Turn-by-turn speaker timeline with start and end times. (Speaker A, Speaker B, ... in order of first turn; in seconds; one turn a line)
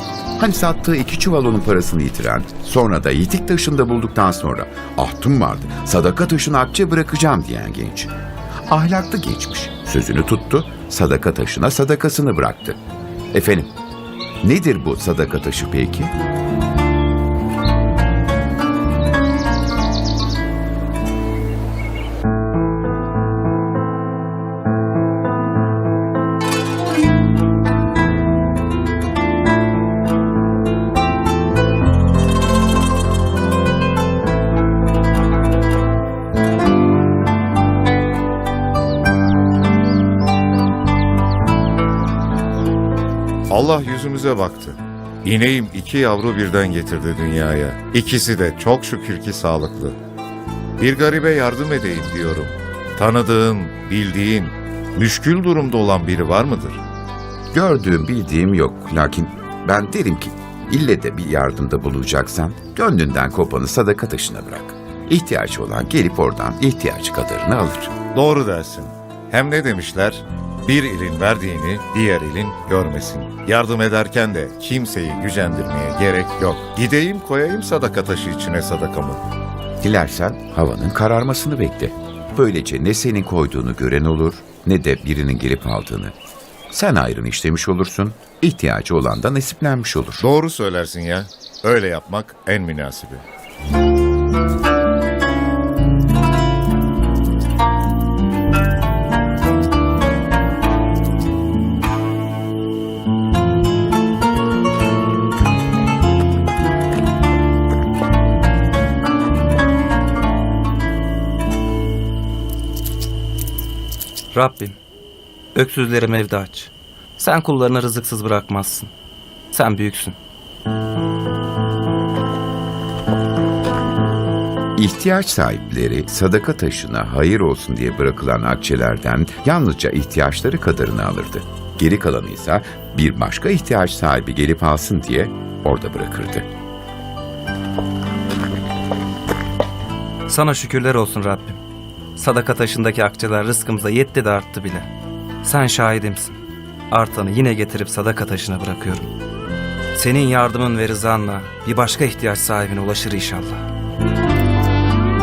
Speaker A: 0.4-8.1
Speaker A: 8.7-12.8
Speaker A: 13.3-13.7
Speaker A: 14.4-16.1
Speaker B: 43.5-50.0
Speaker B: 50.8-56.8
Speaker A: 57.5-68.0
Speaker B: 68.1-79.3
Speaker A: 79.8-86.2
Speaker A: 86.7-90.3
Speaker B: 90.2-93.2
Speaker C: 114.3-114.8
Speaker C: 115.5-118.9
Speaker C: 119.5-120.2
Speaker A: 124.8-136.5
Speaker C: 140.3-141.6
Speaker C: 142.2-144.9
Speaker C: 145.4-146.4
Speaker C: 146.9-149.1
Speaker C: 149.9-153.7